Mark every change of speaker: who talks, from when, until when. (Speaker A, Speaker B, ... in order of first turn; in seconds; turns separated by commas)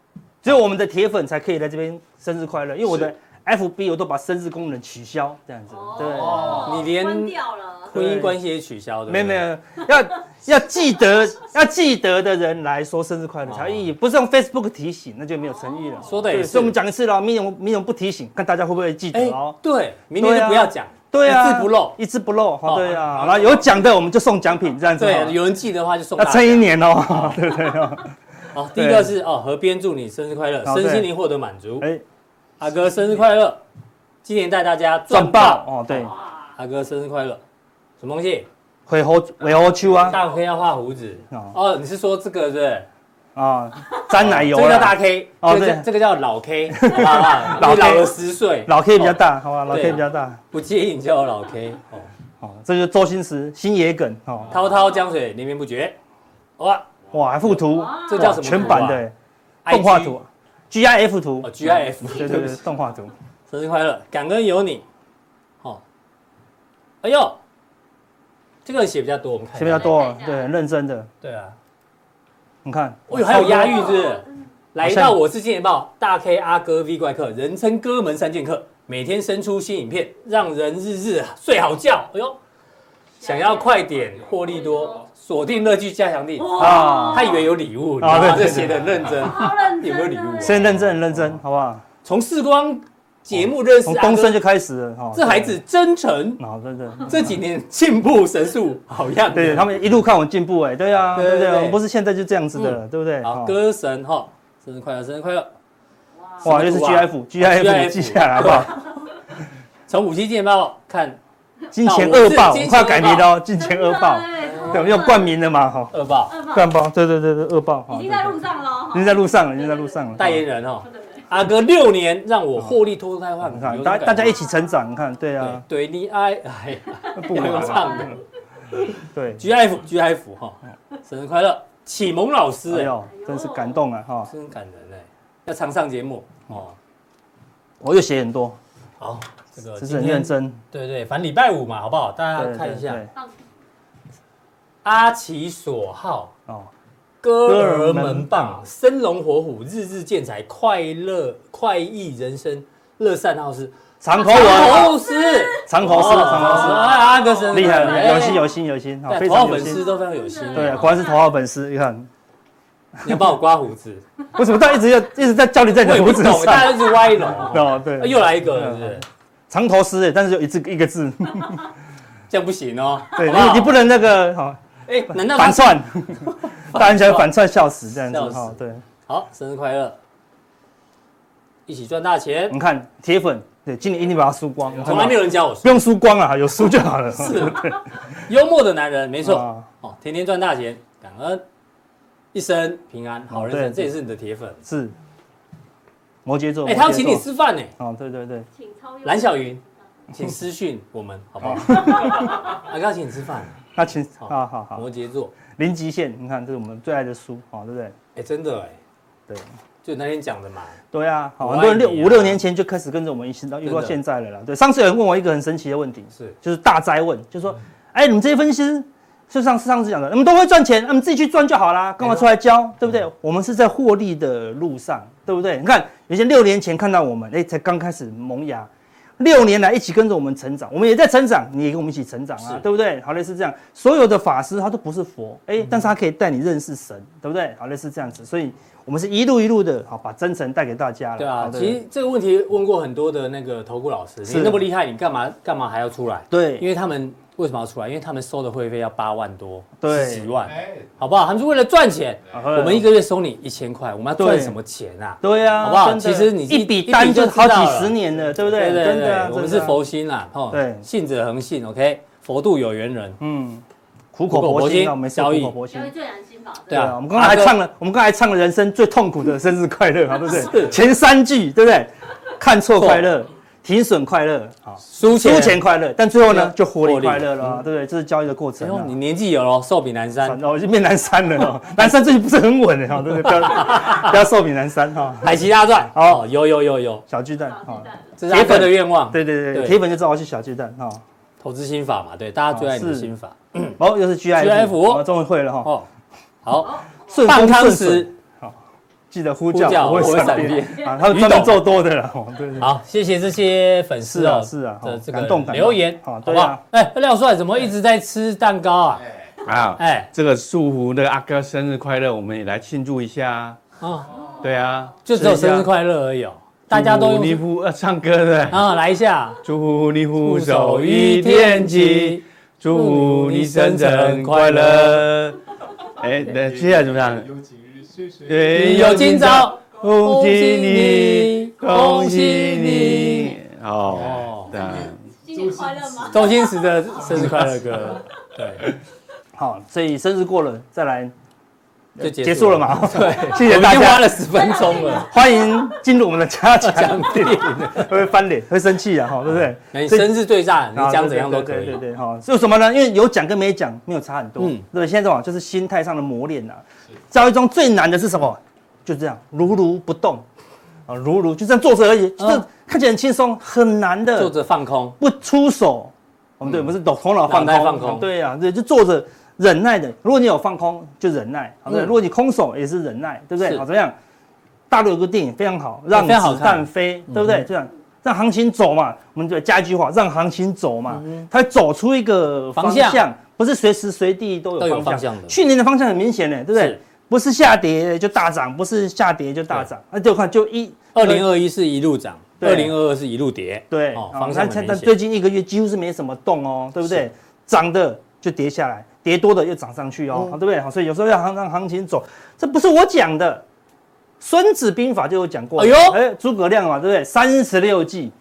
Speaker A: 0.4-6.7, Speaker B: 5.7-7.9, Speaker C: 6.3-7.4, Speaker C: 7.9-9.4, Speaker A: 7.9-8.4, Speaker A: 9.1-19.6, Speaker C: 13.5-13.8, Speaker B: 15.4-16.3, Speaker C: 16.1-16.8, Speaker C: 19.1-21.9, Speaker A: 20.2-25.4, Speaker C: 22.6-23.0, Speaker D: 23.2-23.7, Speaker C: 25.0-27.4, Speaker A: 26.2-28.1, Speaker C: 28.5-31.9, Speaker A: 28.8-29.1, Speaker A: 30.6-31.1, Speaker C: 32.6-33.6, Speaker C: 34.2-35.7, Speaker A: 35.1-36.1, Speaker B: 36.1-36.5, Speaker C: 36.6-37.4, Speaker C: 38.0-38.5, Speaker A: 38.9-40.2, Speaker C: 40.1-42.9, Speaker A: 43.4-45.9, Speaker C: 44.2-52.1, Speaker A: 46.7-48.1, Speaker A: 48.6-50.4, Speaker A: 52.4-54.6, Speaker C: 54.5-56.0, Speaker C: 56.6-56.9, Speaker A: 57.1-59.1, Speaker B: 57.6-58.9, Speaker C: 58.1-59.0, Speaker C: 59.6-60.1, Speaker A: 59.7-63.1, Speaker C: 61.4-62.6, Speaker C: 63.5-64.8, Speaker C: 67.0-67.4, Speaker C: 68.6-69.9, Speaker A: 69.5-71.1, Speaker B: 69.7-70.5, Speaker C: 71.2-71.5, Speaker A: 72.6-74.0, Speaker C: 73.1-82.4, Speaker B: 73.3-74.3, Speaker A: 74.8-75.2, Speaker C: 83.2-91.3, Speaker B: 83.2-85.1, Speaker B: 86.4-87.5, Speaker A: 86.5-87.4, Speaker A: 88.0-89.1, Speaker B: 89.1-90.7, Speaker A: 90.4-91.8, Speaker C: 92.0-94.4, Speaker A: 93.3-95.6, Speaker C: 95.1-96.4, Speaker A: 96.4-97.3, Speaker C: 97.1-99.7, Speaker A: 99.3-103.5, Speaker C: 101.1-101.8, Speaker C: 102.5-105.5, Speaker B: 106.2-106.5, Speaker C: 106.4-108.8, Speaker A: 106.4-108.8, Speaker C: 109.9-111.2, Speaker A: 111.7-115.9, Speaker C: 111.8-113.3, Speaker B: 113.5-115.3, Speaker C: 114.4-114.9, Speaker C: 115.9-116.3, Speaker B: 116.3-116.7, Speaker A: 116.5-118.4, Speaker B: 117.9-120.2, Speaker A: 118.9-120.4, Speaker C: 120.2-124.4, Speaker B: 120.9-121.2, Speaker A: 123.4-125.6, Speaker B: 124.3-124.6, Speaker C: 125.4-128.1, Speaker B: 127.0-128.2, Speaker A: 127.2-128.2, Speaker A: 129.1-129.5, Speaker C: 129.4-132.9, Speaker A: 132.7-134.3, Speaker B: 133.1-133.8, Speaker C: 134.3-136.7, Speaker A: 137.8-138.6, Speaker C: 139.0-143.0, Speaker A: 139.8-140.6, Speaker A: 142.3-143.1, Speaker C: 144.8-146.3, Speaker C: 147.2-153.7, Speaker A: 147.4-148.6, Speaker A: 154.0-154.9, Speaker B: 154.2-158.5, Speaker C: 154.2-158.4, Speaker A: 155.6-156.9, Speaker A: 157.5-159.8, Speaker C: 159.1-161.0, Speaker B: 159.6-161.3, Speaker A: 160.5-162.1, Speaker C: 163.0-164.0, Speaker A: 164.3-171.7, Speaker C: 165.8-169.0, Speaker C: 172.3-173.8, Speaker A: 173.2-178.8, Speaker C: 174.9-177.3, Speaker C: 178.1-180.0, Speaker C: 181.7-182.6, Speaker A: 182.5-187.8, Speaker C: 184.8-185.8, Speaker C: 187.2-191.4, Speaker A: 189.2-189.7, Speaker C: 192.3-194.6, Speaker A: 193.3-193.9, Speaker A: 194.6-194.9, Speaker A: 196.2-197.2, Speaker C: 196.7-197.7, Speaker A: 197.8-198.5, Speaker B: 198.5-199.6, Speaker C: 199.0-199.6, Speaker C: 200.1-203.5, Speaker A: 201.4-202.4, Speaker B: 202.0-202.6, Speaker A: 203.8-204.8, Speaker C: 204.2-205.3, Speaker A: 205.5-207.9, Speaker C: 208.2-208.8, Speaker C: 209.8-210.8, Speaker A: 210.9-241.8, Speaker C: 211.4-212.4, Speaker C: 213.6-213.9, Speaker C: 241.2-257.9, Speaker A: 244.2-244.7, Speaker A: 246.3-246.7, Speaker A: 249.8-250.3, Speaker D: 250.4-251.0, Speaker A: 252.3-252.9, Speaker A: 254.2-254.6, Speaker A: 255.2-259.8, Speaker C: 258.4-263.2, Speaker A: 260.5-260.8, Speaker A: 263.2-263.6, Speaker A: 264.1-265.9, Speaker C: 264.3-265.6, Speaker B: 265.7-266.9, Speaker C: 266.7-267.6, Speaker A: 266.7-278.9, Speaker C: 270.3-270.8, Speaker C: 274.9-275.6, Speaker C: 276.3-277.6, Speaker C: 278.6-280.4, Speaker A: 280.2-285.3, Speaker C: 283.4-284.1, Speaker C: 285.2-287.0, Speaker A: 285.9-286.3, Speaker A: 287.1-291.0, Speaker B: 287.5-288.1, Speaker C: 288.2-289.8, Speaker C: 291.4-293.8, Speaker A: 292.5-293.1, Speaker A: 293.8-295.7, Speaker C: 294.4-295.1, Speaker C: 296.4-298.1, Speaker B: 296.6-297.2, Speaker A: 297.1-298.6, Speaker A: 299.1-302.7, Speaker C: 299.5-301.6, Speaker C: 302.6-309.0, Speaker A: 304.1-306.6, Speaker D: 308.9-309.3, Speaker E: 309.4-313.6, Speaker C: 309.8-310.1, Speaker C: 313.8-314.1, Speaker B: 314.1-314.4, Speaker E: 314.4-315.7, Speaker C: 315.1-317.4, Speaker A: 315.1-315.6, Speaker E: 316.7-318.7, Speaker C: 318.5-319.4, Speaker E: 319.4-325.4, Speaker C: 320.2-325.1, Speaker E: 325.9-327.3, Speaker D: 326.3-328.8, Speaker E: 328.3-335.0, Speaker C: 328.5-333.3, Speaker C: 333.9-334.5, Speaker D: 333.9-338.0, Speaker B: 334.6-336.8, Speaker C: 336.1-338.7, Speaker A: 339.4-341.1, Speaker A: 342.0-344.1, Speaker C: 342.0-345.1, Speaker B: 344.3-345.7, Speaker A: 345.0-350.2, Speaker C: 346.6-348.0, Speaker C: 349.7-351.8, Speaker A: 350.7-360.2, Speaker C: 354.4-354.6, Speaker A: 360.9-364.3, Speaker C: 362.2-362.4, Speaker C: 364.2-364.9, Speaker A: 365.0-373.9, Speaker C: 367.3-368.1, Speaker A: 374.7-391.3, Speaker C: 375.9-377.4, Speaker C: 380.9-381.2, Speaker C: 382.5-383.0, Speaker C: 384.6-385.4, Speaker C: 390.9-394.9, Speaker A: 392.4-392.7, Speaker A: 393.7-403.4, Speaker A: 404.2-408.1, Speaker C: 405.6-406.0